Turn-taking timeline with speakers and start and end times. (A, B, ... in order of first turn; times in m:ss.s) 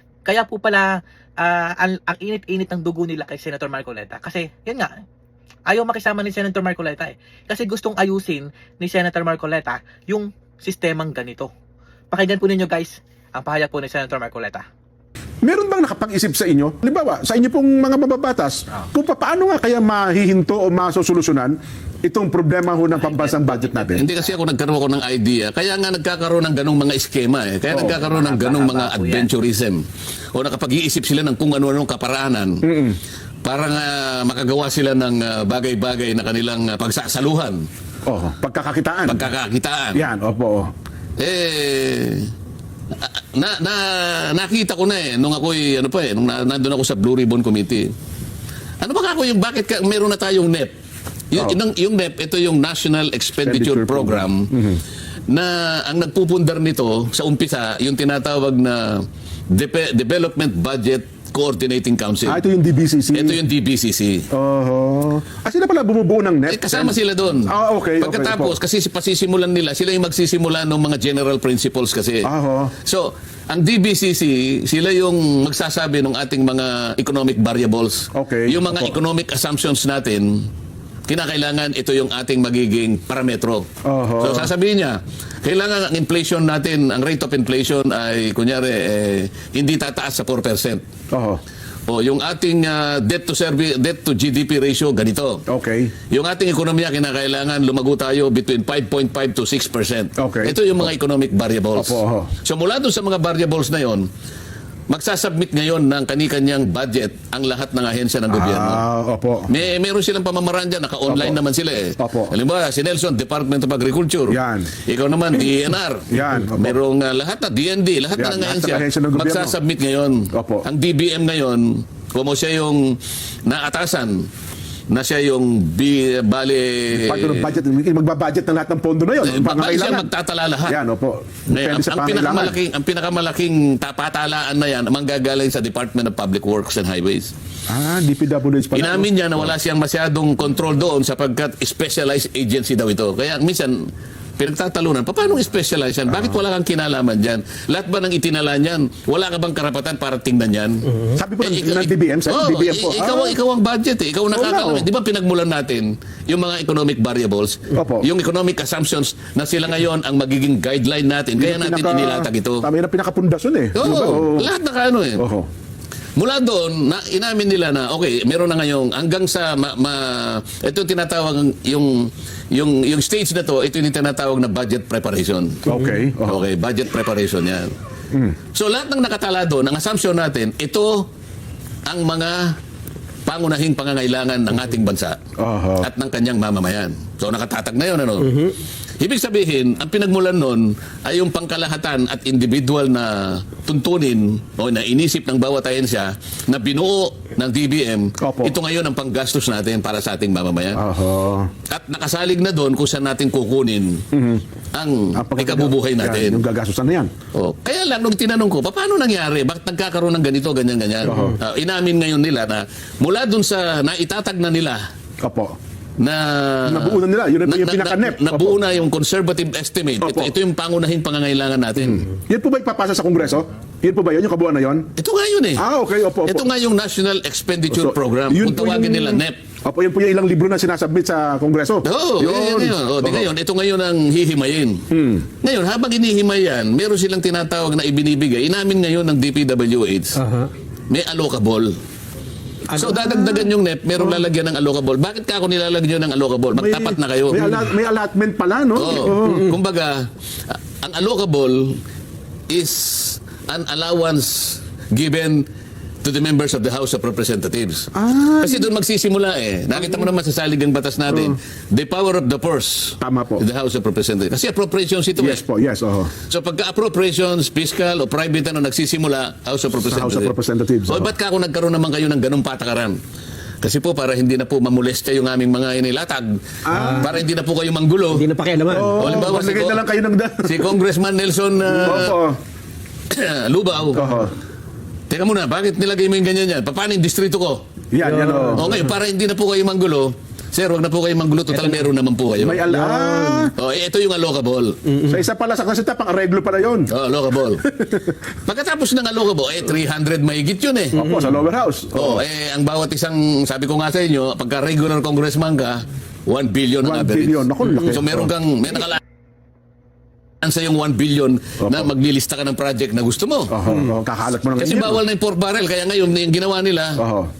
0:00.3-0:04.9 A
0:05.7-0:11.5 A
0:12.1-0:14.6 A
0:15.4-0:24.0 B
0:23.2-0:29.8 C
0:27.7-0:28.0 B
0:27.8-0:29.3 A
0:30.3-0:32.6 C
0:32.6-0:33.0 B
0:33.4-0:37.6 C
0:38.0-0:39.2 B
0:39.1-0:40.0 C
0:39.9-0:40.7 B
0:41.2-0:42.3 C
0:42.9-0:47.9 C
0:48.8-0:50.7 C
0:51.3-0:54.5 C
0:53.4-0:54.8 B
0:55.3-1:02.4 C
1:02.2-1:03.4 B
1:03.1-1:04.2 C
1:04.3-1:08.6 B
1:06.5-1:12.3 C
1:12.2-1:12.7 B
1:12.8-1:20.3 C
1:18.1-1:19.0 B
1:21.1-1:23.7 C
1:23.8-1:24.5 B
1:24.2-1:30.8 C
1:31.1-1:31.4 B
1:31.9-1:35.4 C
1:35.5-1:35.9 B
1:36.1-1:44.0 C
1:40.2-1:40.6 B
1:41.7-1:42.3 B
1:44.9-1:48.8 C
1:48.3-1:49.5 B
1:49.5-2:02.9 C
1:51.1-1:51.4 B
1:52.0-1:52.3 B
1:54.3-1:54.7 B
1:56.1-1:56.8 B
1:58.2-1:59.6 B
2:00.3-2:00.6 B
2:03.4-2:04.2 C
2:04.9-2:07.5 C
2:06.9-2:10.1 B
2:09.2-2:10.8 C
2:10.7-2:12.6 B
2:11.5-2:17.3 C
2:17.7-2:19.1 B
2:18.7-2:23.8 C
2:24.4-2:30.9 C
2:31.1-2:33.4 B
2:31.4-2:42.6 C
2:34.3-2:34.9 B
2:37.7-2:38.1 B
2:41.4-2:44.5 B
2:43.8-2:45.2 C
2:45.2-2:45.5 B
2:46.2-2:55.6 C
2:55.6-2:56.4 B
2:56.2-2:57.7 C
2:58.5-3:01.1 C
3:01.8-3:02.5 C
3:03.2-3:05.2 C
3:05.4-3:05.9 B
3:05.8-3:08.5 C
3:09.0-3:20.8 C
3:18.2-3:18.6 B
3:20.8-3:21.5 B
3:21.7-3:24.0 C
3:24.1-3:24.4 B
3:24.7-3:26.4 C
3:25.1-3:27.1 B
3:27.3-3:34.8 C
3:31.0-3:31.4 B
3:35.2-3:35.5 B
3:36.0-3:42.1 C
3:36.6-3:38.6 B
3:40.0-3:40.3 B
3:42.0-3:44.9 B
3:45.0-3:45.6 C
3:45.6-3:46.5 B
3:46.2-3:49.4 C
3:47.7-3:53.3 B
3:51.8-3:54.8 C
3:54.9-3:55.2 B
3:55.4-4:00.2 C
4:00.2-4:00.5 D
4:00.9-4:01.7 C
4:02.7-4:03.4 D
4:02.7-4:07.4 C
4:06.5-4:09.5 B
4:08.7-4:11.8 C
4:12.5-4:15.4 C
4:16.0-4:25.4 C
4:17.9-4:18.7 B
4:21.1-4:21.3 B
4:23.0-4:23.4 B
4:25.2-4:26.1 B
4:26.3-4:30.3 C
4:29.7-4:31.1 B
4:30.9-4:33.0 C
4:33.6-4:38.2 C
4:36.6-4:37.0 B
4:36.7-4:37.1 D
4:38.1-4:39.3 D
4:38.7-4:40.7 B
4:39.0-4:39.8 C
4:40.4-4:42.2 C
4:41.8-4:42.4 B
4:43.1-4:44.0 C
4:43.9-4:44.3 B
4:45.1-4:47.6 C
4:47.9-4:48.7 B
4:48.0-4:48.8 D
4:48.5-4:52.6 C
4:51.5-4:51.9 D
4:52.4-4:53.5 B
4:52.7-4:53.5 D
4:53.6-4:54.7 C
4:54.9-4:55.2 D
4:55.1-4:56.9 B
4:56.9-4:57.6 C
4:57.6-4:58.2 B
4:58.4-5:01.0 C
5:00.9-5:01.4 D
5:00.9-5:02.2 B
5:01.9-5:09.0 C
5:06.8-5:08.3 B
5:10.4-5:13.5 C
5:11.6-5:11.9 B
5:13.5-5:15.0 B
5:13.7-5:13.9 D
5:14.6-5:17.0 C
5:17.0-5:17.3 B